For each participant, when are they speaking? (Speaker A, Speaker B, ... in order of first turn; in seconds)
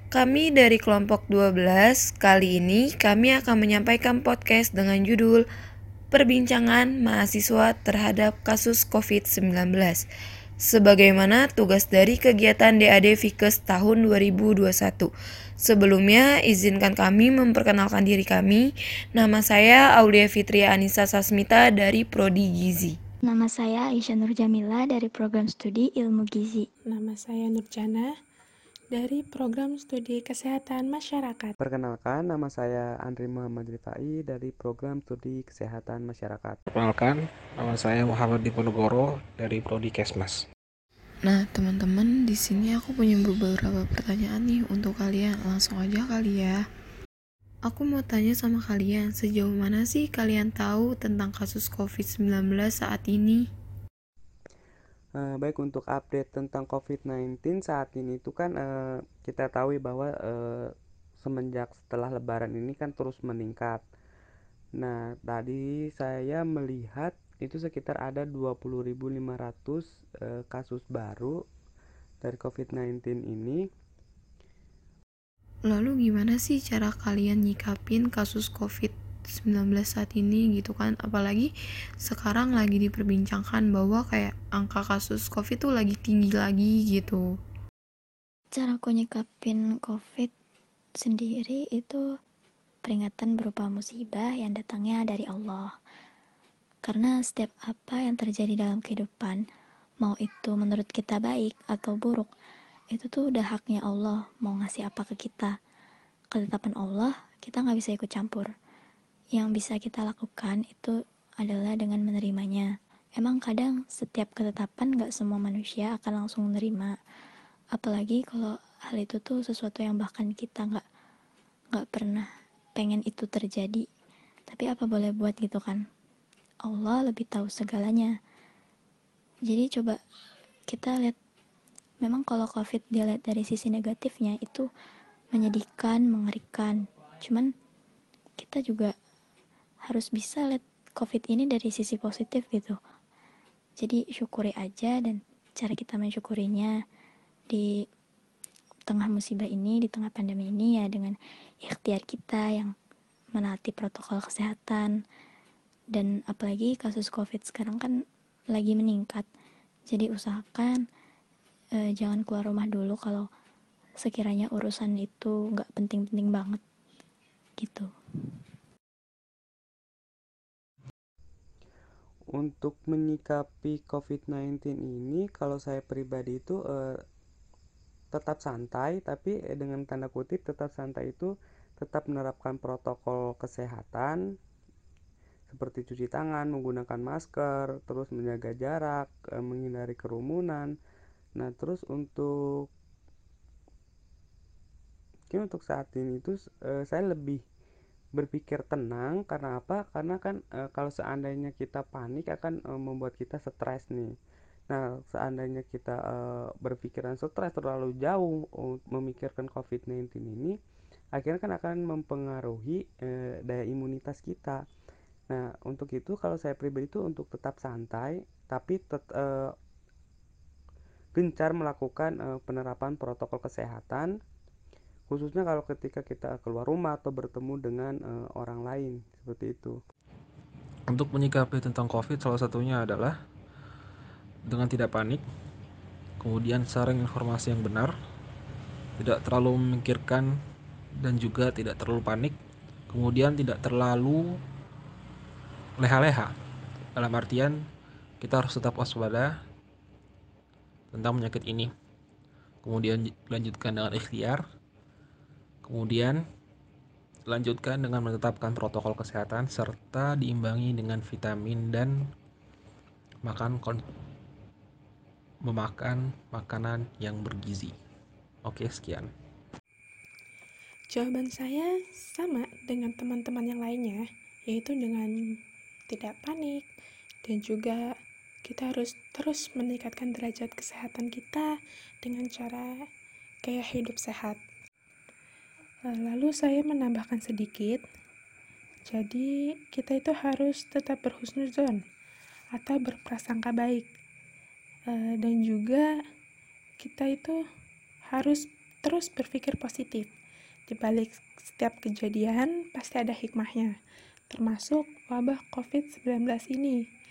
Speaker A: 0.1-5.4, 6.1-10.0, 10.6-15.1, 15.6-23.0, 41.2-46.6, 47.7-53.5, 75.7-87.3
Speaker B: 23.2-26.7, 88.6-90.3, 91.0-92.0, 92.8-95.7, 96.9-99.4, 100.0-102.3, 102.9-105.5, 106.3-108.5, 109.3-116.9, 117.8-120.8, 121.7-123.8, 124.5-125.8, 126.7-128.1, 129.5-130.0, 130.7-131.2, 132.0-134.7, 135.3-137.5, 138.4-138.9, 139.9-142.8, 143.8-146.7, 148.9-152.7, 153.4-154.9, 155.9-158.0, 158.5-159.2, 159.9-160.8, 161.8-163.3, 164.0-166.6, 167.6-167.9
Speaker C: 26.9-28.1, 28.9-31.6, 270.9-275.1, 275.9-276.6, 277.2-277.9, 278.4-281.5, 282.0-282.8, 283.5-284.4, 285.9-287.8, 288.9-291.8, 292.5-293.9, 294.9-295.9, 296.8-297.4, 298.1-300.1, 300.7-303.7, 304.3-306.8
Speaker D: 31.6-36.6, 55.2-63.8, 64.8-71.4, 72.2-73.6, 172.3-177.0, 178.1-184.2, 185.5-190.7, 191.4-192.7, 195.3-197.4, 198.2-204.1, 204.7-210.6, 211.2-214.6, 215.3-219.6, 221.2-224.1, 225.1-229.8
Speaker E: 36.7-40.5, 230.9-233.2, 234.5-235.2, 236.2-237.9, 239.0-240.4, 241.0-242.4, 242.9-244.4, 245.8-246.3, 247.0-247.6, 248.2-249.3, 250.9-251.7, 252.6-254.4, 255.7-256.2, 257.3-262.1, 263.2-263.8, 265.4-267.7, 268.4-269.1